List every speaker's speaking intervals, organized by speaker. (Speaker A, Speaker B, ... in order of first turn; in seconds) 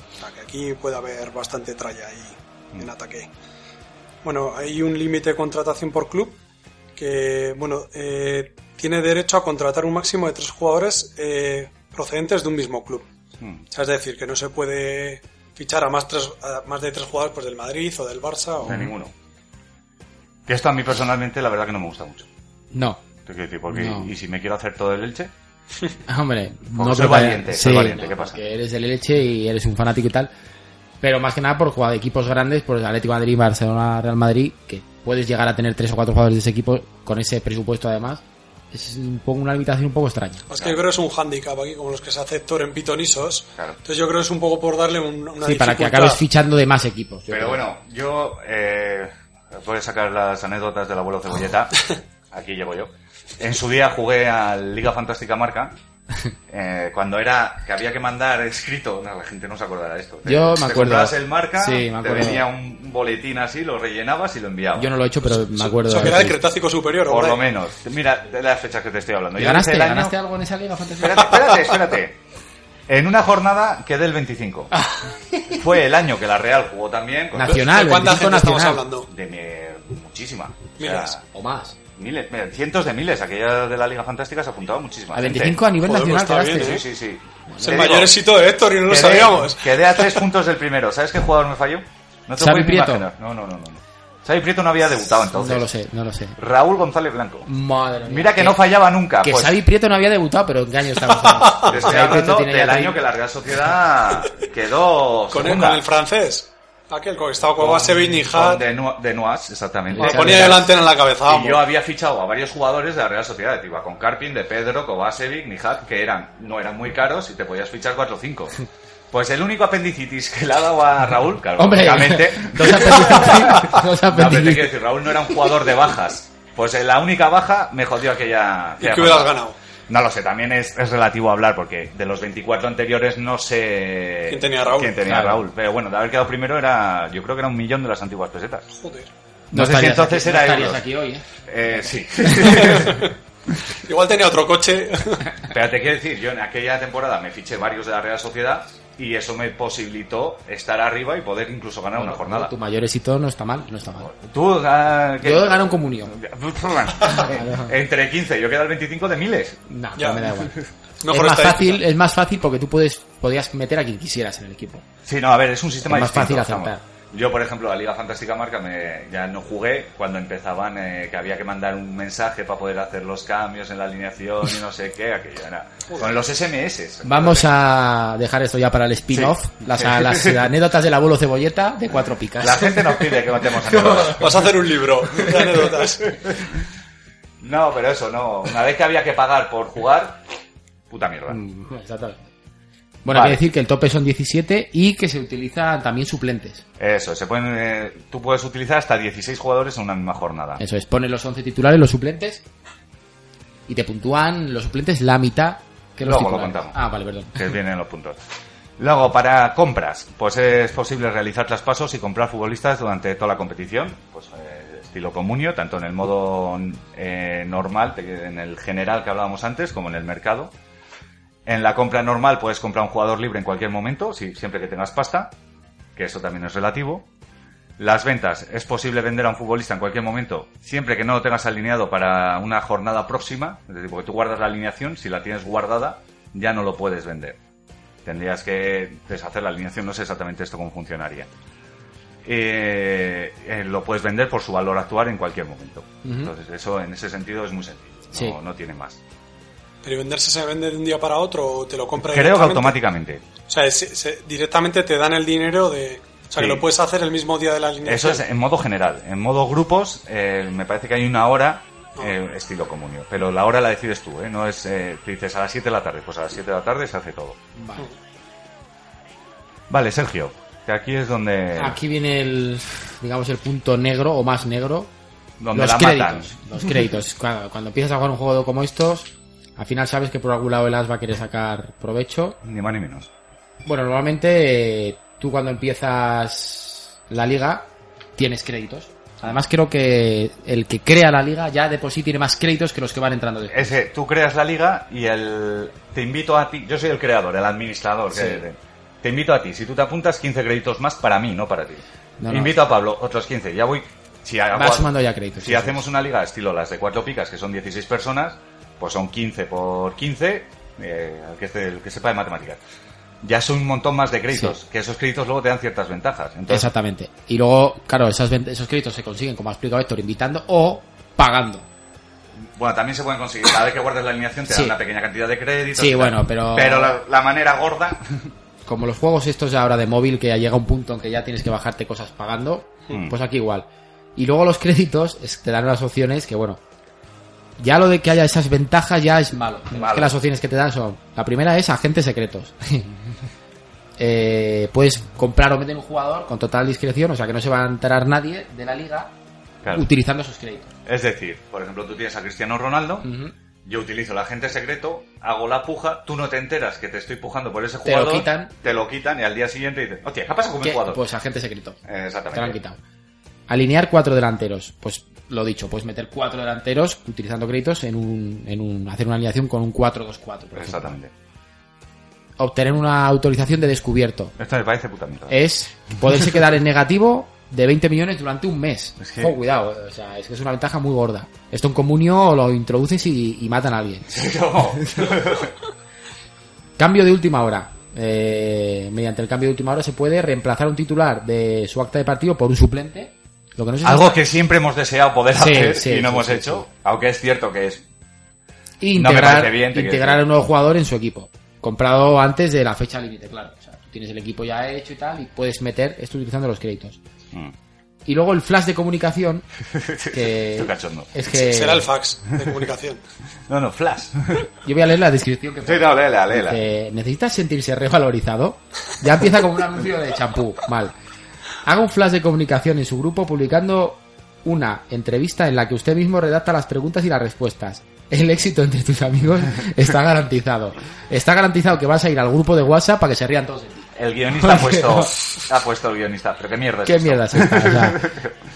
Speaker A: 0.2-3.3, 4.2-6.4, 7.0-13.1, 13.7-18.8, 40.5-46.2, 65.3-67.4, 77.4-79.1, 80.8-81.1, 85.8-86.8, 87.6-90.1, 105.3-108.6, 110.0-111.6, 128.8-129.6, 134.3-135.0, 138.7-139.1, 142.4-143.1, 143.8-145.2, 160.0-160.2, 161.0-161.8, 184.2-186.1, 249.8-252.8, 253.5-258.2, 411.3-413.0
Speaker B: 18.6-19.1, 20.4-22.3, 23.2-25.3, 26.7-28.4, 47.3-51.8, 52.3-55.7, 56.5-64.9, 67.1-70.1, 71.0-72.2, 72.9-74.7, 75.5-77.6, 79.1-81.2, 81.9-85.6, 86.5-88.1, 88.8-95.7, 96.4-97.5, 98.0-99.6, 101.6-105.8, 107.6-110.7, 111.2-118.6, 119.1-129.3, 129.9-138.7, 139.5-140.8, 141.4-143.1, 145.5-152.5, 154.0-159.6, 165.0-177.4, 179.1-180.4, 182.4-184.4, 186.2-186.5, 187.4-190.2, 190.9-191.4, 193.1-193.4, 196.8-200.6, 206.0-206.8, 207.3-208.2, 208.8-220.5, 221.4-225.3, 225.9-227.1, 227.8-237.4, 238.0-241.3, 242.2-249.0, 252.0-253.2, 256.4-256.6, 257.8-267.4, 269.7-271.8, 275.4-276.3, 282.4-283.1, 293.5-312.6, 313.2-316.7, 322.5-328.0, 332.9-333.1, 339.7-340.1, 349.6-349.9, 350.9-353.1, 353.6-361.0, 361.8-362.6, 370.5-371.1, 374.4-375.4, 379.0-379.3, 384.1-385.5, 393.8-397.8, 398.9-400.2, 409.7-411.1, 413.5-414.5, 415.6-416.6, 433.9-438.3
Speaker C: 22.7-23.0, 23.7-24.1, 26.1-30.3, 31.0-40.4, 45.4-47.6, 60.2-62.4, 64.8-66.4, 69.4-71.5, 74.7-75.5, 77.3-78.8, 81.3-81.8, 85.1-86.8, 87.5-87.9, 92.4-93.1, 95.3-96.4, 97.5-98.6, 99.2-103.0, 109.9-110.7, 121.6-124.7, 135.0-135.4, 139.5-141.2, 142.2-142.8, 151.9-154.1, 155.2-156.1, 157.1-157.7, 159.7-160.6, 161.1-164.8, 165.8-166.8, 177.0-184.4, 185.1-185.4, 191.3-192.3, 193.0-196.6, 200.6-202.4, 203.7-207.5, 246.0-246.3, 248.1-248.4, 267.6-267.9, 271.6-274.9, 275.5-282.4, 283.6-293.8, 298.1-298.4, 302.2-302.5, 304.5-305.8, 316.5-321.7, 324.5-324.8, 325.7-326.9, 328.6-336.6, 337.6-342.9, 344.0-349.1, 349.7-350.7, 353.0-353.3, 357.8-358.5, 360.6-361.8, 362.3-362.8, 363.5-370.9, 372.4-374.3, 375.3-384.2, 386.8-394.2, 395.3-396.6, 398.8-407.0, 408.1-409.4, 410.1-411.9, 414.6-420.9, 421.6-435.1, 436.8-438.1